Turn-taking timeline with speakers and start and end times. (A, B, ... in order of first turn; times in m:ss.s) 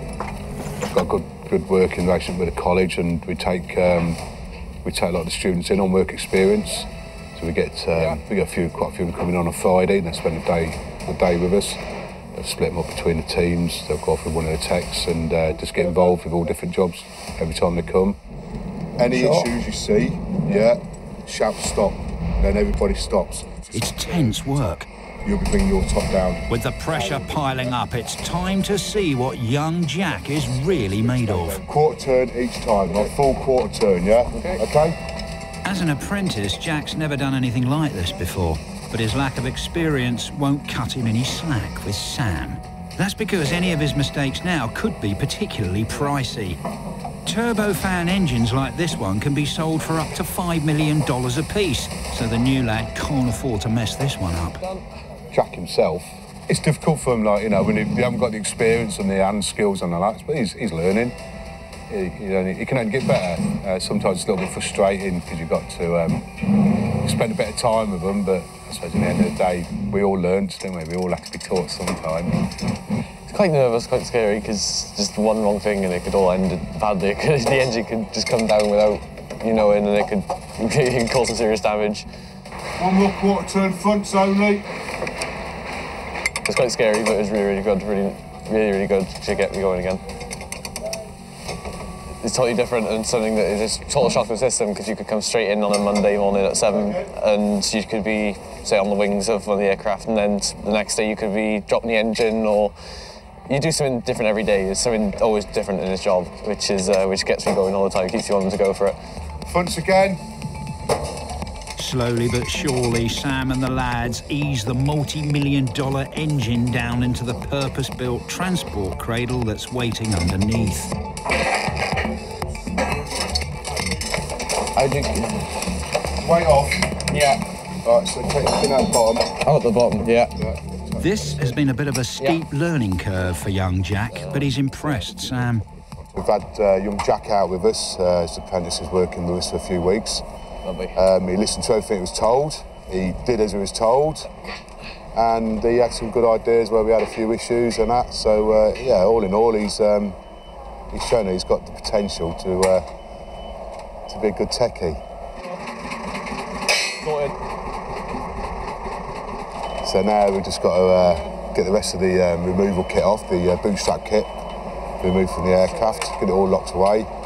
0:00.9-0:04.2 A
0:04.8-0:11.8 A
0:12.3-0:18.2 A
0:19.0-0:24.3 A
0:23.7-0:24.9 B
0:25.2-0:26.5 A
0:26.5-0:31.6 B
0:31.6-0:35.0 A
0:34.3-0:34.6 C
0:35.6-0:46.6 B
0:47.2-0:54.6 B
0:55.3-1:01.2 A
1:01.9-1:06.3 A
1:07.0-1:12.4 A
1:13.3-1:22.0 C
1:22.8-1:24.7 A
1:26.4-1:30.0 C
1:32.2-1:42.7 C
1:43.5-1:49.0 C
1:49.5-1:50.2 A
1:51.8-2:00.9 B
2:04.8-2:05.4 C
2:06.2-2:09.4 A
2:09.4-2:10.3 C
2:10.3-2:11.6 A
2:11.0-2:15.6 B
2:14.1-2:14.5 C
2:16.2-2:20.2 A
2:20.6-2:20.9 C
2:21.0-2:24.3 A
2:25.1-2:30.2 A
2:30.9-2:32.9 A
2:34.1-2:35.0 A
2:39.8-2:44.3 A
2:45.0-2:47.1 A